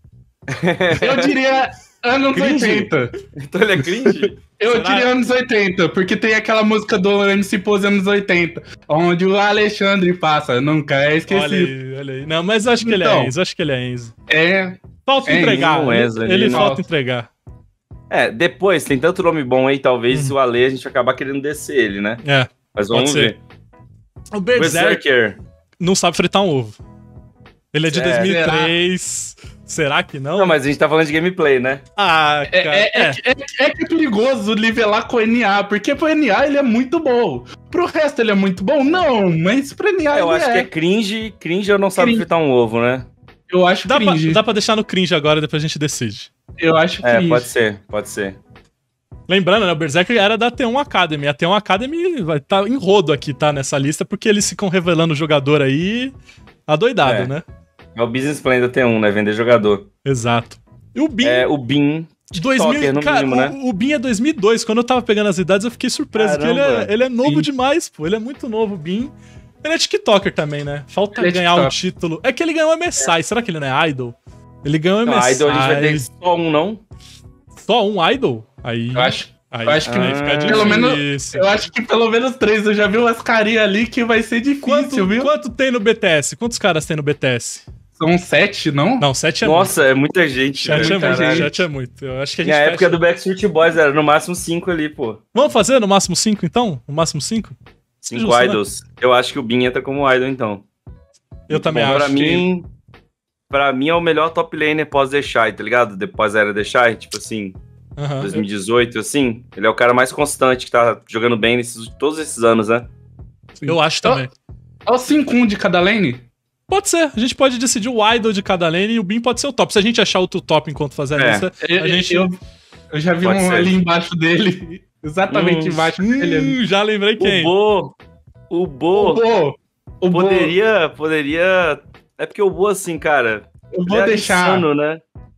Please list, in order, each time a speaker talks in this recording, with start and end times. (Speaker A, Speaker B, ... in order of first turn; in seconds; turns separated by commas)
Speaker A: 0.5-1.3, Speaker B: 1.0-3.1, Speaker A: 2.3-4.4, Speaker B: 4.4-11.7, Speaker C: 4.7-5.2, Speaker C: 11.3-14.1, Speaker B: 12.8-13.3, Speaker B: 14.3-15.7, Speaker C: 15.1-17.3, Speaker A: 15.3-16.7, Speaker B: 16.4-16.9, Speaker A: 18.1-22.2, Speaker C: 22.2-23.3, Speaker A: 22.8-23.4, Speaker C: 24.3-25.0, Speaker A: 24.6-25.4, Speaker C: 25.8-26.8, Speaker C: 27.7-30.6, Speaker A: 27.9-28.3, Speaker B: 28.2-28.8, Speaker A: 30.4-31.8, Speaker C: 32.0-33.2, Speaker B: 32.5-40.7, Speaker A: 40.1-43.1, Speaker B: 42.0-42.3, Speaker B: 43.5-44.4, Speaker C: 43.9-46.3, Speaker B: 46.6-47.5, Speaker A: 47.0-48.4, Speaker C: 49.3-56.1, Speaker C: 56.7-57.4, Speaker A: 57.0-57.3, Speaker A: 58.0-59.9, Speaker C: 60.0-61.5, Speaker A: 61.2-63.5, Speaker C: 62.3-76.1, Speaker A: 66.2-66.9, Speaker B: 71.1-71.8, Speaker A: 75.0-76.8, Speaker C: 77.6-81.6, Speaker B: 79.0-85.3, Speaker A: 79.9-80.9, Speaker C: 84.6-87.7, Speaker B: 88.0-89.1, Speaker C: 89.0-89.8, Speaker A: 89.4-91.5, Speaker C: 90.6-93.0, Speaker B: 90.7-91.6, Speaker A: 92.4-95.2, Speaker C: 95.3-97.6, Speaker A: 98.1-100.6, Speaker C: 98.1-98.6, Speaker C: 101.5-102.5, Speaker A: 101.5-102.7, Speaker A: 103.5-107.6, Speaker C: 108.0-108.4, Speaker A: 108.2-112.9, Speaker B: 113.6-114.3, Speaker C: 113.7-114.3, Speaker B: 114.9-116.3, Speaker C: 116.7-122.3, Speaker A: 121.2-121.5, Speaker B: 121.6-122.4, Speaker B: 122.9-126.6, Speaker A: 123.2-123.7, Speaker A: 125.3-125.8, Speaker C: 126.0-127.5, Speaker A: 127.2-128.0, Speaker A: 128.5-129.2, Speaker B: 128.9-130.5, Speaker A: 130.1-135.0, Speaker B: 133.7-134.7